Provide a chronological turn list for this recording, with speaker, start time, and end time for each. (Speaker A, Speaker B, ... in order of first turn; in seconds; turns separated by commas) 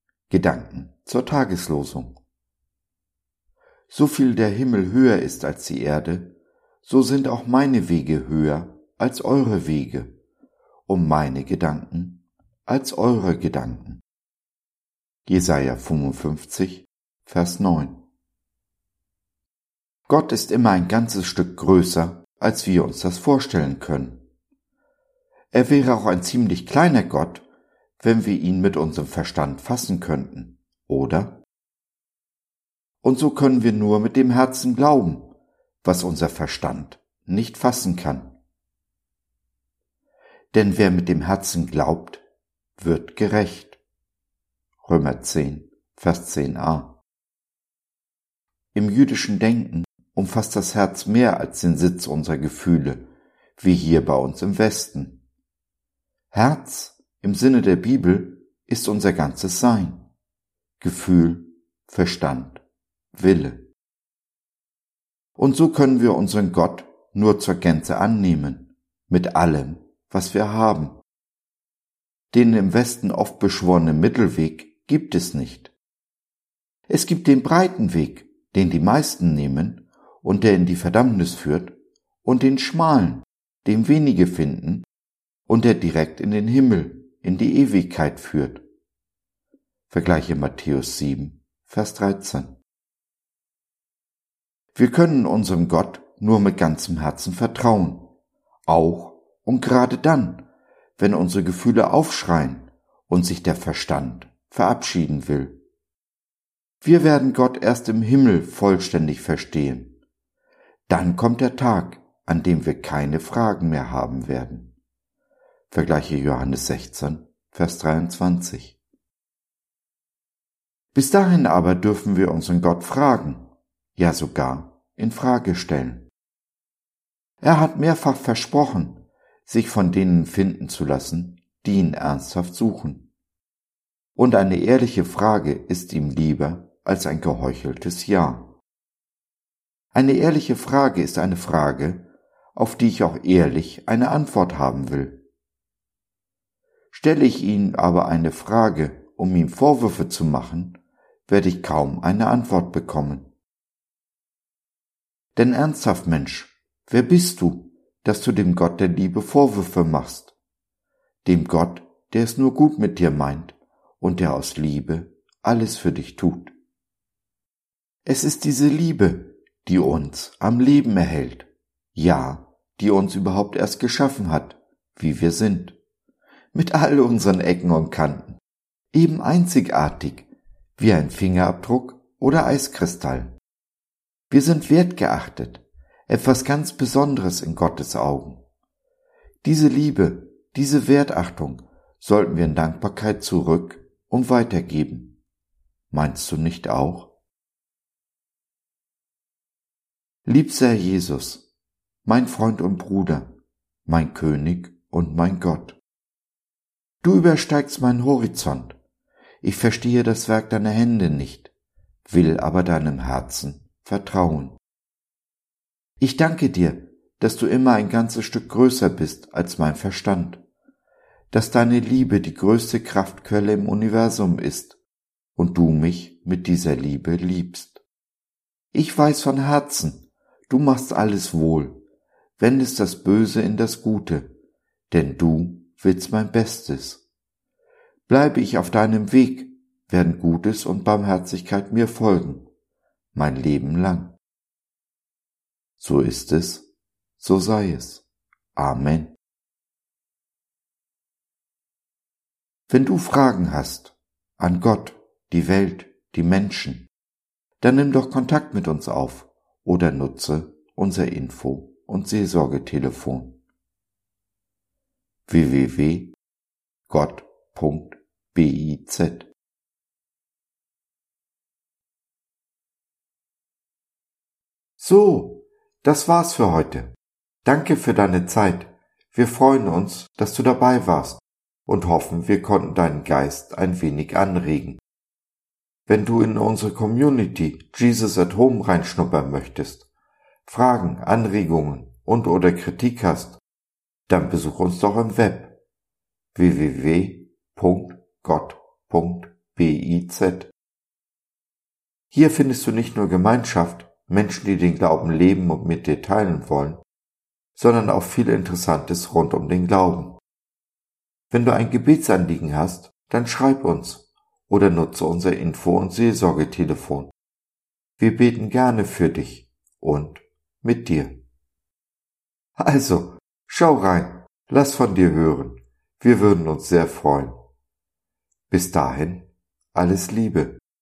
Speaker A: 0.3-2.2, Speaker A: 3.9-10.1, Speaker A: 10.9-14.0, Speaker A: 15.3-18.0, Speaker A: 20.1-24.2, Speaker A: 25.5-27.5, Speaker A: 28.0-31.4, Speaker A: 33.0-35.3, Speaker A: 35.8-38.4, Speaker A: 40.5-42.2, Speaker A: 42.8-43.8, Speaker A: 44.8-47.0, Speaker A: 48.7-53.0, Speaker A: 53.6-55.2, Speaker A: 56.3-60.0, Speaker A: 60.8-62.6, Speaker A: 63.1-63.7, Speaker A: 65.4-71.0, Speaker A: 72.3-75.7, Speaker A: 76.9-84.9, Speaker A: 85.5-88.7, Speaker A: 89.9-92.6, Speaker A: 94.7-98.1, Speaker A: 98.7-100.5, Speaker A: 101.0-105.6, Speaker A: 106.8-110.0, Speaker A: 110.9-114.8, Speaker A: 115.7-118.8, Speaker A: 120.9-126.1, Speaker A: 127.4-133.1, Speaker A: 134.2-138.6, Speaker A: 139.9-145.2, Speaker A: 146.9-153.3, Speaker A: 155.3-160.3, Speaker A: 161.2-166.5, Speaker A: 168.1-175.8, Speaker A: 176.5-178.4, Speaker A: 178.9-183.4, Speaker A: 184.3-188.4, Speaker A: 189.4-195.2, Speaker A: 195.9-197.1, Speaker A: 200.2-201.5, Speaker A: 202.1-203.3, Speaker A: 203.9-205.8, Speaker A: 207.0-208.8, Speaker A: 209.4-211.5, Speaker A: 212.1-214.6, Speaker A: 216.0-220.4, Speaker A: 221.3-224.8, Speaker A: 225.4-227.8, Speaker A: 228.7-231.8, Speaker A: 232.4-234.3, Speaker A: 234.9-237.0, Speaker A: 238.1-242.5, Speaker A: 243.1-244.2, Speaker A: 245.8-246.7, Speaker A: 247.2-249.2, Speaker A: 252.7-256.9, Speaker A: 257.6-263.4, Speaker A: 265.3-266.1, Speaker A: 266.9-269.3, Speaker A: 274.8-284.8, Speaker A: 285.9-289.9, Speaker A: 290.5-293.4, Speaker A: 294.1-295.6, Speaker A: 296.3-300.5, Speaker A: 302.1-306.8, Speaker A: 307.6-310.2, Speaker A: 311.3-317.1, Speaker A: 318.0-321.2, Speaker A: 322.6-327.4, Speaker A: 328.5-330.6